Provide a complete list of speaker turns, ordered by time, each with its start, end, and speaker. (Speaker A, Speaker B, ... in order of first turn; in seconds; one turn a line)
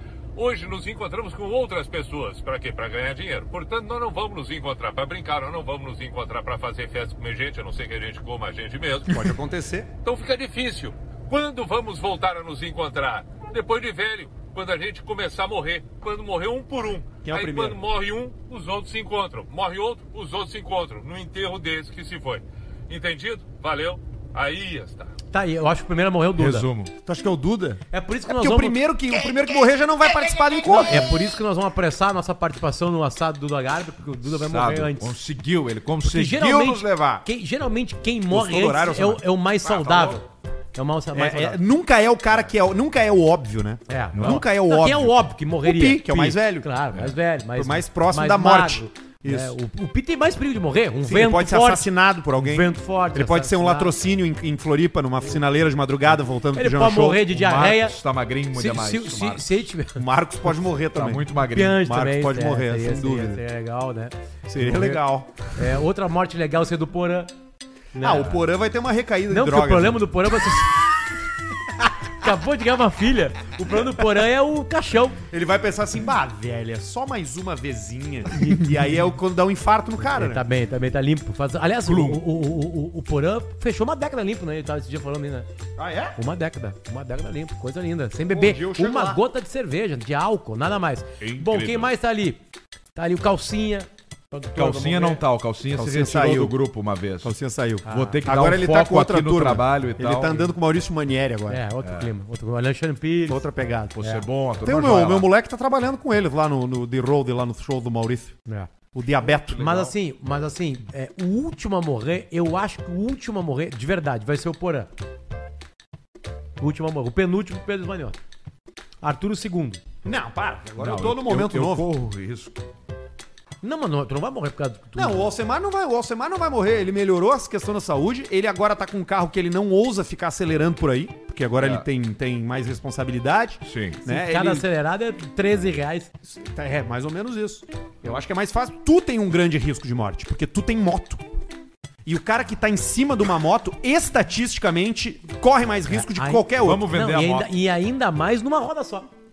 Speaker A: 0.3-9.3
Speaker B: 9.1-9.9
Speaker A: 10.0-25.1
Speaker B: 17.2-17.8
Speaker C: 25.3-26.7
Speaker D: 26.4-26.9
Speaker B: 27.0-31.1
Speaker C: 27.9-28.8
Speaker C: 30.7-35.1
Speaker D: 34.2-37.2
Speaker C: 36.0-41.6
Speaker B: 38.3-39.2
Speaker D: 39.6-40.2
Speaker B: 39.8-40.1
Speaker B: 41.1-46.7
Speaker C: 43.9-53.9
Speaker D: 44.1-44.4
Speaker B: 47.5-49.5
Speaker B: 51.0-57.2
Speaker C: 56.5-58.0
Speaker D: 57.2-59.7
Speaker C: 58.5-60.0
Speaker B: 59.9-61.2
Speaker D: 60.9-61.9
Speaker C: 61.5-65.0
Speaker B: 61.8-63.4
Speaker B: 64.5-65.4
Speaker C: 65.5-67.3
Speaker C: 67.9-68.3
Speaker B: 68.0-70.0
Speaker C: 69.3-70.8
Speaker C: 72.1-75.2
Speaker B: 75.3-80.4
Speaker C: 78.3-78.7
Speaker C: 80.0-85.5
Speaker D: 81.8-82.2
Speaker B: 85.8-86.2
Speaker C: 86.2-92.4
Speaker B: 88.3-89.2
Speaker D: 91.2-91.9
Speaker C: 92.9-95.2
Speaker D: 94.5-97.3
Speaker B: 95.7-96.5
Speaker B: 97.2-101.6
Speaker C: 97.8-98.2
Speaker D: 97.8-100.5
Speaker C: 101.5-103.4
Speaker D: 101.8-102.1
Speaker B: 103.3-104.0
Speaker D: 103.9-105.3
Speaker B: 104.6-108.3
Speaker B: 108.9-109.6
Speaker D: 109.2-109.9
Speaker C: 109.6-114.9
Speaker C: 116.6-118.2
Speaker C: 119.0-119.8
Speaker B: 120.0-121.9
Speaker D: 120.8-122.6
Speaker C: 123.6-125.3
Speaker B: 124.9-134.7
Speaker D: 131.6-131.8
Speaker D: 133.6-134.0
Speaker C: 134.1-136.1
Speaker B: 136.2-141.2
Speaker B: 142.0-146.8
Speaker C: 145.9-149.1
Speaker D: 146.6-147.5